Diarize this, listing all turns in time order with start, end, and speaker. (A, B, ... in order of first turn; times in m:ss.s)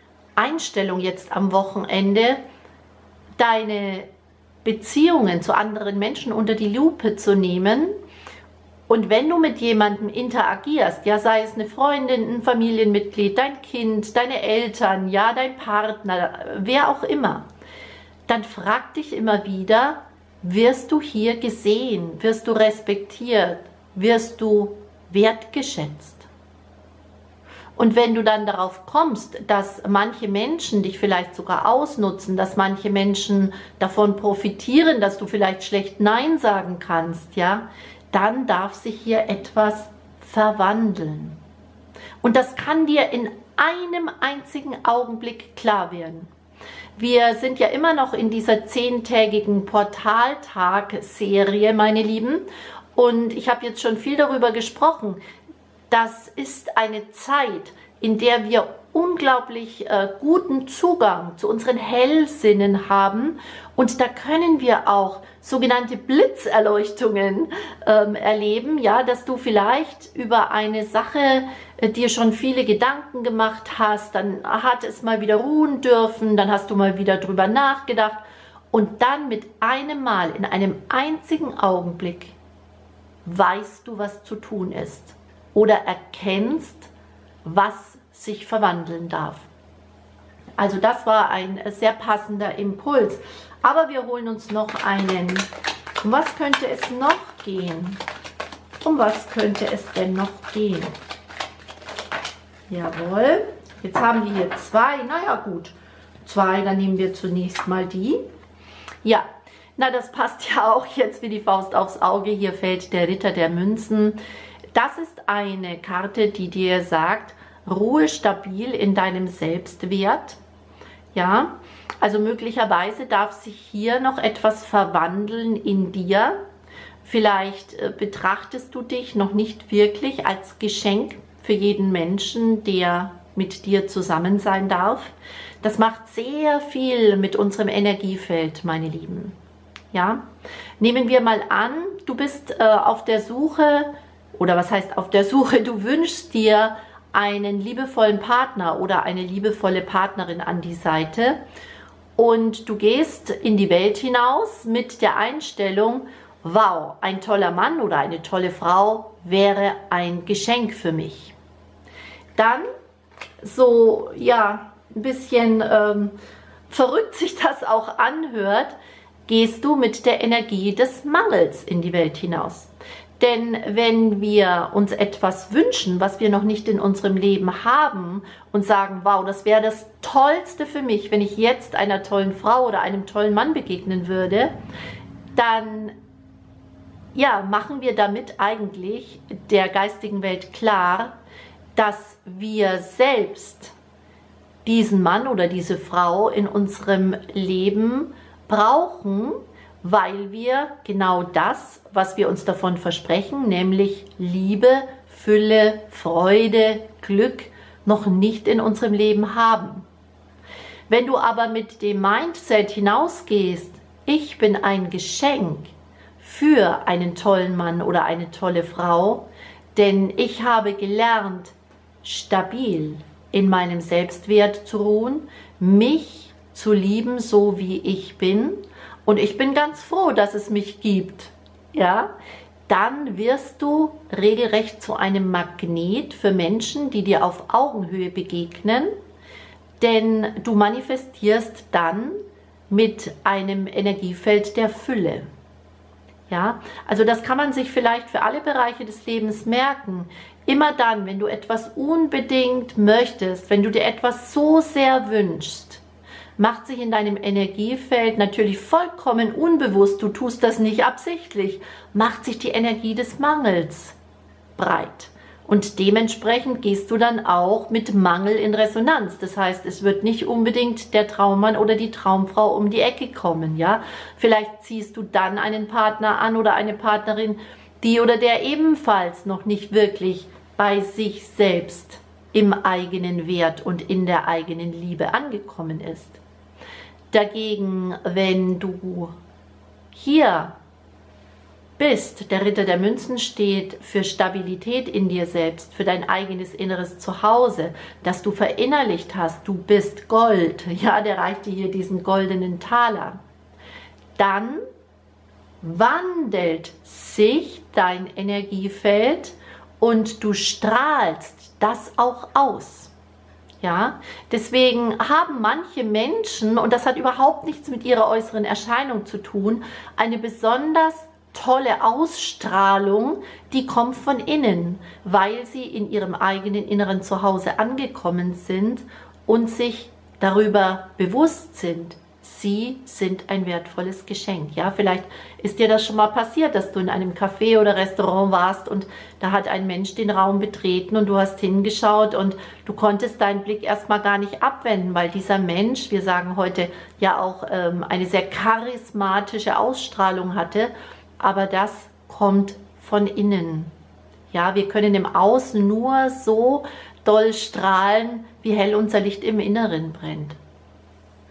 0:00.4-0:02.4 A
0:03.4-0:04.1 A
0:04.6-0:07.9 A
0:08.9-0:17.5 A
0:18.3-0:26.3 A
0:27.8-0:41.4 A
0:42.2-0:46.3 A
0:47.0-0:52.4 A
0:53.0-0:55.2 A
0:55.9-1:22.4 A
1:23.2-1:26.9 A
1:27.4-1:29.5 A
1:30.6-1:35.5 A
1:36.0-1:38.0 A
1:38.8-1:40.9 A
1:42.7-1:48.2 A
1:49.0-1:54.2 A
1:54.7-2:00.4 A
2:01.1-2:06.4 A
2:07.0-2:19.4 A
2:19.9-2:20.2 A
2:20.8-2:31.4 A
2:32.2-2:41.4 A
2:42.4-2:42.6 A
2:43.4-2:46.1 A
2:46.7-2:48.8 A
2:49.3-3:04.5 A
3:05.4-3:06.0 A
3:07.1-3:11.1 A
3:11.8-3:13.7 A
3:14.6-3:29.9 A
3:30.9-3:39.2 A
3:39.8-3:52.1 A
3:52.7-3:58.9 A
3:59.8-4:05.3 A
4:06.3-4:15.8 A
4:16.4-4:24.0 A
4:24.6-4:46.2 A
4:47.1-4:49.1 A
4:49.9-4:50.5 A
4:51.8-5:03.2 A
5:04.2-5:04.6 A
5:05.6-5:12.9 A
5:13.6-5:53.7 A
5:54.3-6:00.4 A